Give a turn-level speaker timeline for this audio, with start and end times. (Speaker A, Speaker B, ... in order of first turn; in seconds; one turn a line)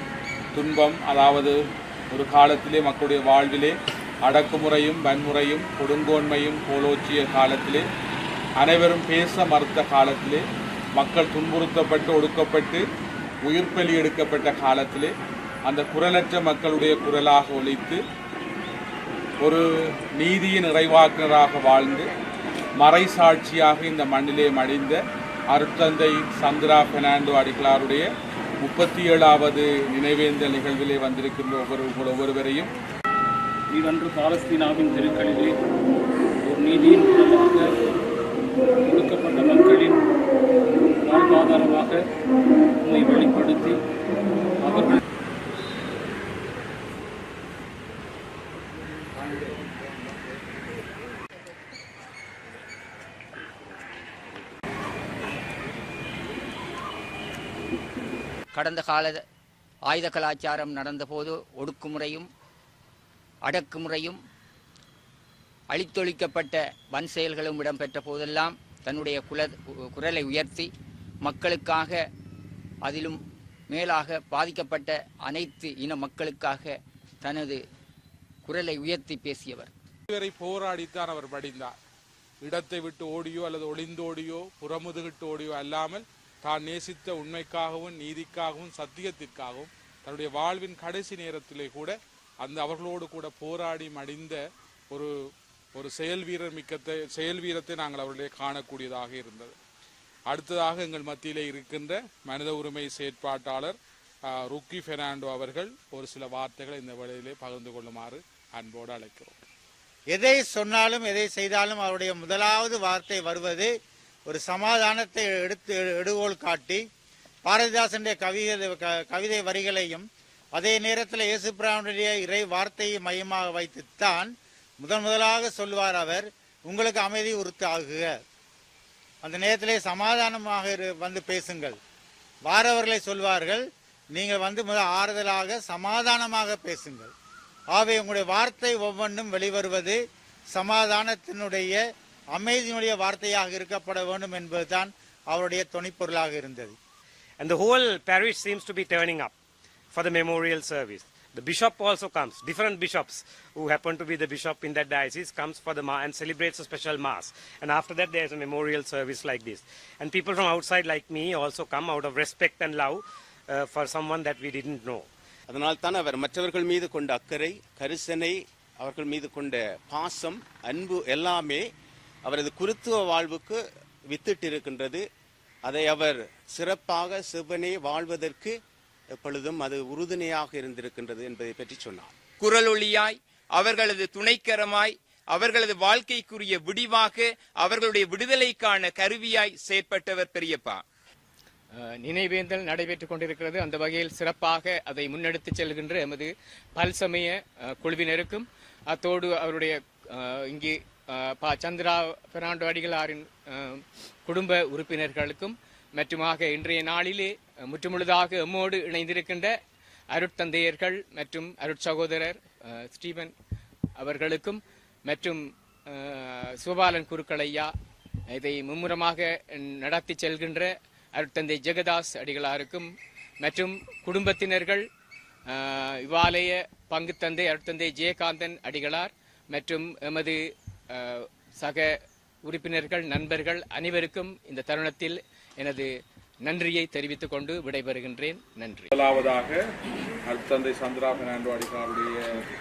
Speaker A: 0.5-1.6
Speaker A: 2.1-7.8
Speaker A: 8.6-10.4
Speaker A: 11.0-12.8
Speaker A: 13.5-15.1
Speaker A: 15.7-18.0
Speaker A: 20.1-22.1
Speaker A: 22.8-25.0
Speaker A: 25.5-28.1
Speaker A: 28.6-32.7
Speaker B: 33.7-35.5
Speaker B: 36.5-37.6
Speaker B: 38.9-40.0
Speaker B: 41.0-42.0
Speaker B: 42.8-43.8
Speaker B: 44.6-45.0
Speaker C: 58.5-59.2
Speaker C: 59.9-62.3
Speaker C: 63.5-64.2
Speaker C: 65.7-70.7
Speaker C: 71.2-72.0
Speaker C: 72.8-77.6
Speaker C: 78.5-79.7
Speaker A: 80.1-81.7
Speaker A: 82.4-95.1
Speaker A: 95.8-99.6
Speaker A: 100.3-103.8
Speaker A: 104.3-109.4
Speaker D: 110.1-113.7
Speaker D: 114.3-116.8
Speaker D: 117.5-128.2
Speaker D: 129.2-131.8
Speaker D: 132.4-137.1
Speaker D: 137.7-146.8
Speaker E: 147.4-149.3
Speaker E: 150.0-163.0
Speaker E: 163.7-165.0
Speaker F: 165.5-171.6
Speaker F: 172.2-175.0
Speaker F: 175.6-178.5
Speaker F: 179.2-182.1
Speaker G: 182.4-190.8
Speaker H: 191.8-209.6
Speaker H: 210.1-213.3
Speaker H: 214.0-217.7
Speaker H: 218.3-224.8
Speaker H: 225.5-230.4
Speaker H: 230.9-231.9
Speaker H: 232.4-235.9
Speaker H: 236.4-238.9
Speaker A: 238.9-239.6
Speaker A: 240.2-242.3